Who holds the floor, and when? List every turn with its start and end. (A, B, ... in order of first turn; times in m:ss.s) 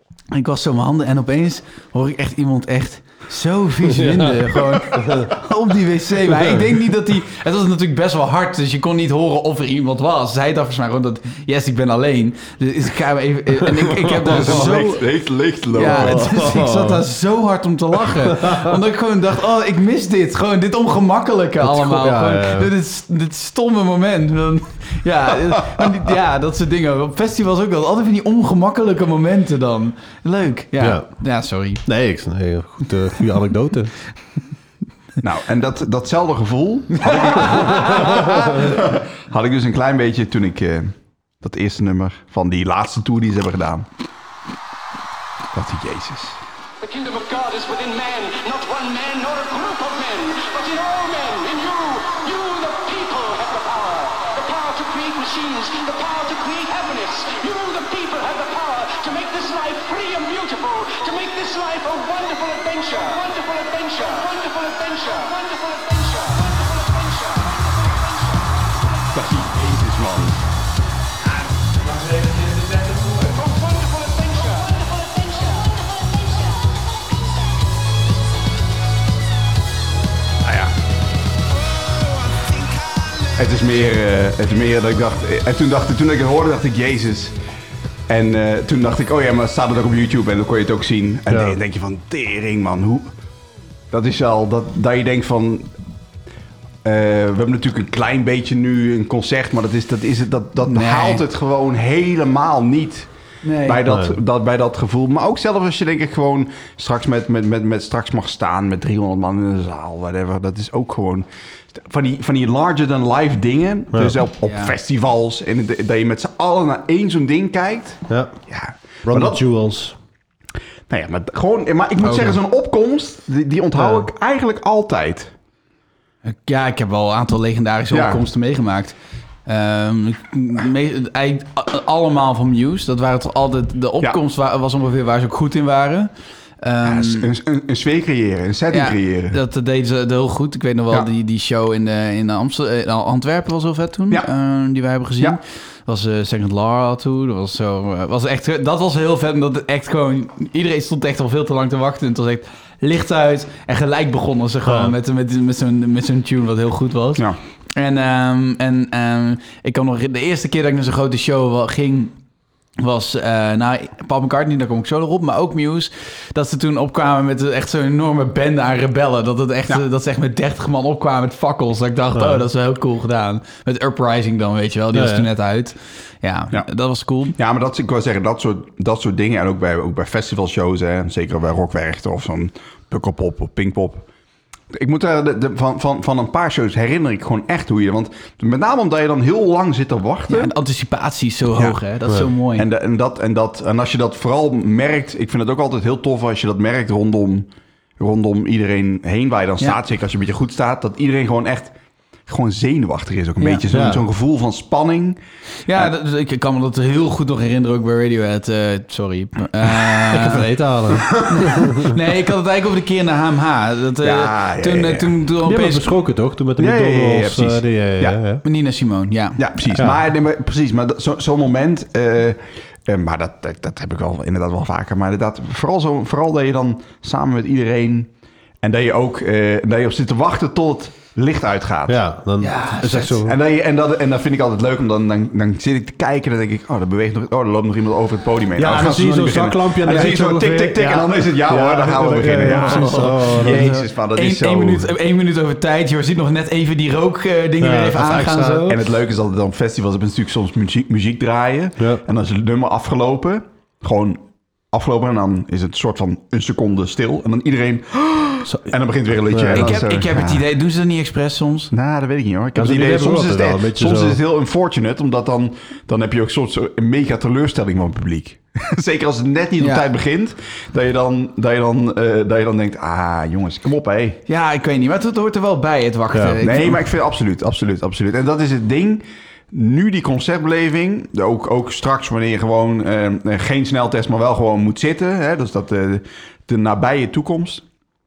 0:00.3-0:15.0 A
0:04.0-0:04.3 B
0:04.9-0:05.3 B
0:14.2-0:14.8 B
0:14.2-0:16.5 C
0:15.7-0:31.8 A
0:15.9-0:17.0 B
0:18.4-0:18.7 B
0:21.6-0:22.7 B
0:30.8-0:31.1 B
0:31.8-0:33.9 B
0:35.2-0:43.8 C
0:37.0-0:38.4 A
0:45.5-0:46.4 C
0:46.8-1:09.1 D
1:09.1-1:10.4 C
1:11.9-1:13.3 A
1:13.3-1:16.7 D
1:20.4-1:20.7 C
1:23.4-1:27.3 C
1:28.1-1:33.1 C
1:31.3-1:31.6 B
1:33.9-1:35.7 C
1:36.8-1:43.1 C
1:40.7-1:41.2 A
1:43.4-1:43.8 A
1:43.6-1:59.4 C
1:43.9-1:44.2 B
1:54.4-1:54.7 A
1:58.1-1:58.3 B
1:59.0-1:59.9 B
2:00.9-2:05.3 C
2:02.0-2:02.4 A
2:03.8-2:04.0 B
2:06.2-2:08.9 A
2:07.9-2:08.2 C
2:09.4-2:16.1 A
2:16.6-2:17.3 A
2:16.8-2:19.4 C
2:18.7-2:37.2 A
2:34.6-2:34.9 B
2:37.8-2:42.1 A
2:42.8-2:57.3 A
2:52.1-2:52.4 B
2:54.9-2:55.3 B
2:57.3-3:04.1 C
3:04.7-3:10.5 C
3:10.3-3:12.7 A
3:12.5-3:21.7 C
3:22.3-3:25.2 C
3:23.7-3:24.0 B
3:25.7-3:30.4 A
3:30.1-3:31.9 B
3:31.2-3:35.9 A
3:34.0-3:35.1 C
3:35.4-3:38.4 B
3:36.6-3:38.2 C
3:38.4-3:39.4 A
3:39.4-3:48.1 C
3:48.6-3:52.0 C
3:51.9-3:53.4 B
3:52.4-3:53.1 A
3:53.1-4:04.9 C
3:58.6-4:03.7 B
4:02.5-4:08.8 A
4:07.6-4:08.7 B
4:08.7-4:20.4 C
4:18.4-4:18.7 B
4:19.3-4:19.7 B
4:19.5-4:21.7 A
4:21.7-4:34.2 C
4:22.5-4:24.2 B
4:29.6-4:29.8 A
4:34.3-4:36.8 A
4:36.1-4:36.4 B
4:36.4-4:47.6 C